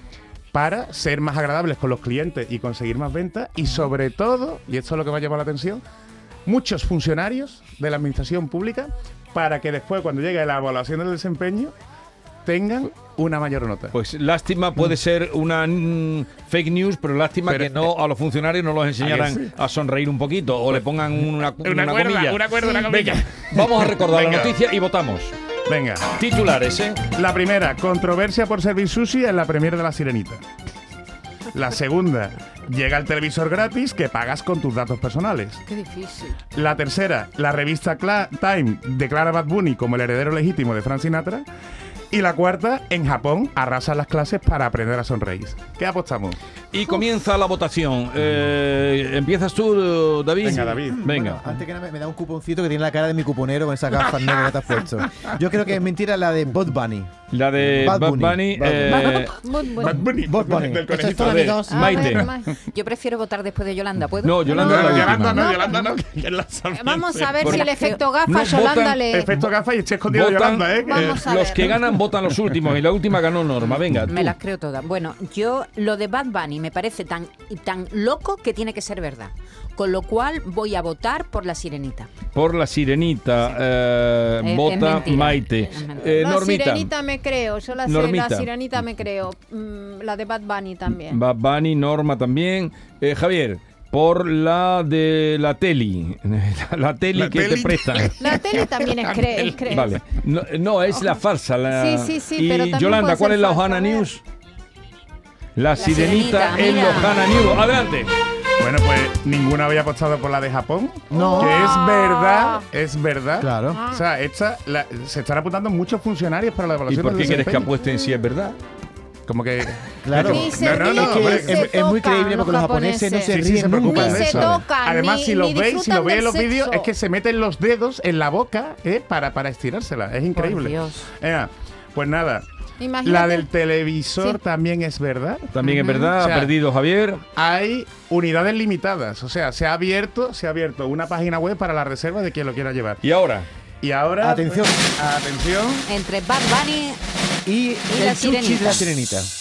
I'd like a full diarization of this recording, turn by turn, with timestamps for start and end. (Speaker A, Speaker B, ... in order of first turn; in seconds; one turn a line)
Speaker A: 0.5-5.8
Speaker A: 6.5-11.7
Speaker A: 12.4-14.0
Speaker B: 13.9-25.3
Speaker A: 17.4-17.9
Speaker A: 19.0-19.5
Speaker A: 21.6-24.5
Speaker A: 25.7-26.1
Speaker B: 26.1-27.0
Speaker A: 27.1-30.4
Speaker A: 31.5-35.6
Speaker C: 35.7-36.3
Speaker A: 36.5-41.5
Speaker A: 42.1-46.4
Speaker B: 46.7-51.5
Speaker A: 50.4-51.0
Speaker D: 50.9-57.1
Speaker B: 57.3-59.3
Speaker D: 57.7-59.3
Speaker C: 59.1-60.1
Speaker A: 59.8-62.5
Speaker D: 60.1-62.0
Speaker B: 61.2-62.3
Speaker C: 61.7-62.6
Speaker E: 62.7-65.1
Speaker B: 64.2-65.5
Speaker C: 64.5-66.0
Speaker A: 64.5-67.5
Speaker C: 66.7-69.3
Speaker B: 67.4-67.7
Speaker E: 67.4-68.0
Speaker B: 68.2-69.0
Speaker A: 69.1-71.3
Speaker B: 70.1-74.3
Speaker C: 70.7-72.0
Speaker E: 73.6-82.1
Speaker B: 82.3-86.9
Speaker E: 84.4-86.3
Speaker C: 86.2-91.2
Speaker B: 87.8-88.5
Speaker B: 90.9-98.2
Speaker A: 97.1-100.0
Speaker C: 98.2-100.0
Speaker B: 99.7-104.2
Speaker C: 101.7-104.1
Speaker B: 105.6-108.1
Speaker E: 105.8-107.2
Speaker A: 108.6-117.7
Speaker C: 111.1-112.7
Speaker D: 111.1-111.7
Speaker D: 113.4-113.8
Speaker C: 113.7-114.0
Speaker B: 116.9-118.6
Speaker A: 119.3-121.6
Speaker D: 120.0-124.6
Speaker C: 120.2-126.9
Speaker A: 123.3-132.5
Speaker E: 130.3-131.1
Speaker C: 132.8-133.5
Speaker A: 133.0-135.6
Speaker C: 134.2-134.4
Speaker B: 135.5-137.2
Speaker E: 135.6-136.1
Speaker A: 136.2-136.5
Speaker A: 137.3-143.0
Speaker B: 143.0-143.5
Speaker A: 143.8-145.9
Speaker D: 144.2-144.8
Speaker E: 145.9-147.0
Speaker D: 147.4-149.3
Speaker E: 147.9-148.8